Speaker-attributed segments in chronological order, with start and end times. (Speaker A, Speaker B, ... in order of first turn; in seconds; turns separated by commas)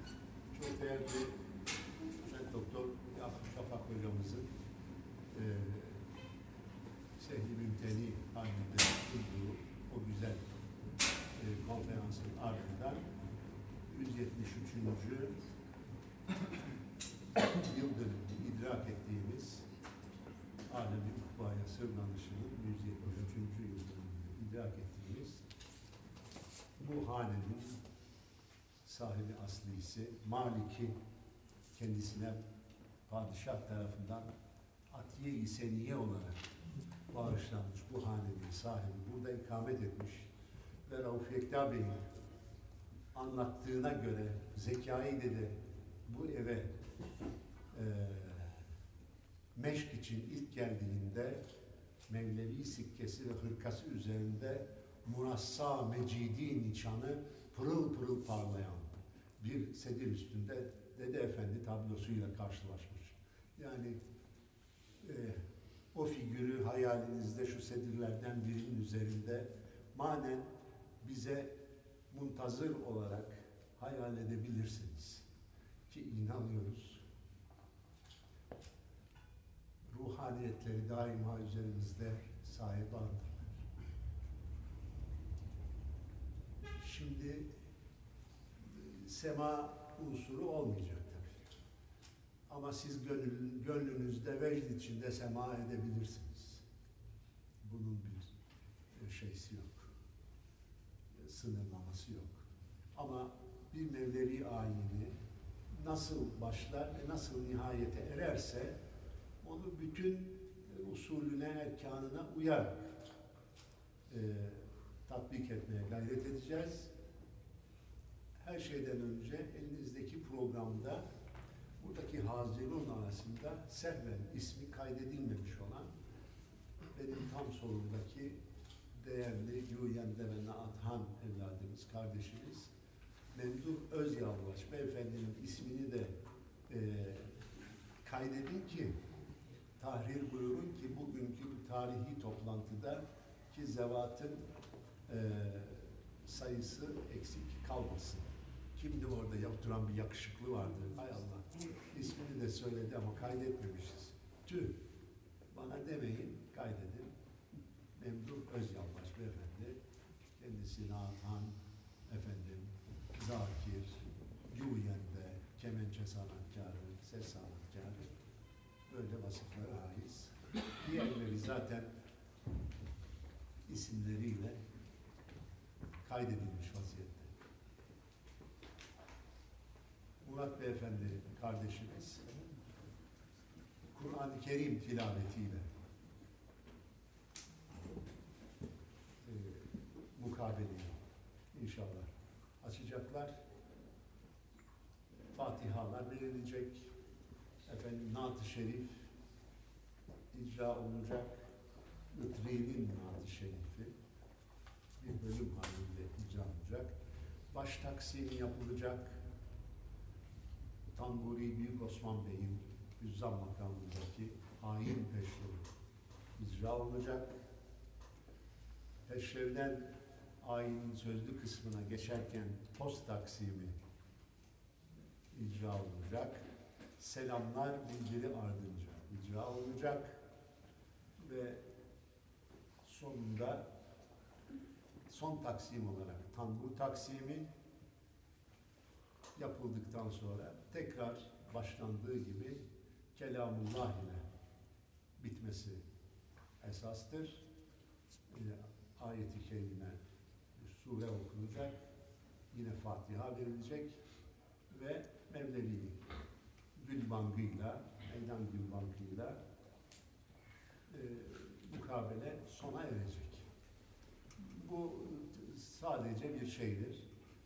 Speaker A: 0.5-1.4, Speaker A: 2.2-4.5, Speaker A: 5.3-6.1, Speaker A: 7.2-10.5, Speaker A: 11.4-13.1, Speaker A: 13.9-15.4, Speaker A: 17.5-19.7, Speaker A: 20.7-25.4, Speaker A: 26.8-27.8, Speaker A: 28.8-31.0, Speaker A: 31.7-32.4, Speaker A: 33.1-34.3, Speaker A: 34.9-36.4, Speaker A: 37.1-40.3, Speaker A: 40.8-42.0, Speaker A: 43.1-45.5, Speaker A: 46.1-46.7, Speaker A: 47.7-48.6, Speaker A: 49.5-51.4, Speaker A: 52.1-64.0, Speaker A: 65.0-70.5, Speaker A: 71.0-75.2, Speaker A: 75.9-77.0, Speaker A: 79.9-83.5, Speaker A: 86.8-87.5, Speaker A: 88.6-91.4, Speaker A: 92.5-96.7, Speaker A: 97.6-98.3, Speaker A: 98.9-99.9, Speaker A: 101.1-102.4, Speaker A: 103.0-105.2, Speaker A: 105.7-108.8, Speaker A: 109.4-113.0, Speaker A: 114.1-116.9, Speaker A: 118.4-121.1, Speaker A: 121.8-125.9, Speaker A: 126.9-128.4, Speaker A: 128.9-132.7, Speaker A: 133.3-136.1, Speaker A: 136.7-139.0, Speaker A: 139.8-144.5, Speaker A: 145.1-154.8, Speaker A: 155.5-157.1, Speaker A: 157.9-159.8, Speaker A: 160.4-168.1, Speaker A: 168.9-171.9, Speaker A: 173.7-174.6, Speaker A: 176.0-177.3, Speaker A: 180.2-182.4, Speaker A: 183.9-185.7, Speaker A: 189.2-191.0, Speaker A: 191.5-192.1, Speaker A: 192.6-193.3, Speaker A: 195.3-196.9, Speaker A: 197.7-199.1, Speaker A: 200.3-201.5, Speaker A: 202.1-203.9, Speaker A: 205.0-207.0, Speaker A: 207.5-209.2, Speaker A: 210.9-215.7, Speaker A: 216.4-217.4, Speaker A: 219.1-223.8, Speaker A: 225.3-226.4, Speaker A: 227.0-230.2, Speaker A: 231.2-231.6, Speaker A: 232.8-233.7, Speaker A: 235.1-237.5, Speaker A: 239.3-242.6, Speaker A: 243.2-244.2, Speaker A: 245.2-245.8, Speaker A: 246.6-247.4, Speaker A: 248.3-250.0, Speaker A: 250.6-251.8, Speaker A: 252.5-254.0, Speaker A: 254.7-256.0, Speaker A: 256.8-259.4, Speaker A: 260.9-263.4, Speaker A: 264.4-267.1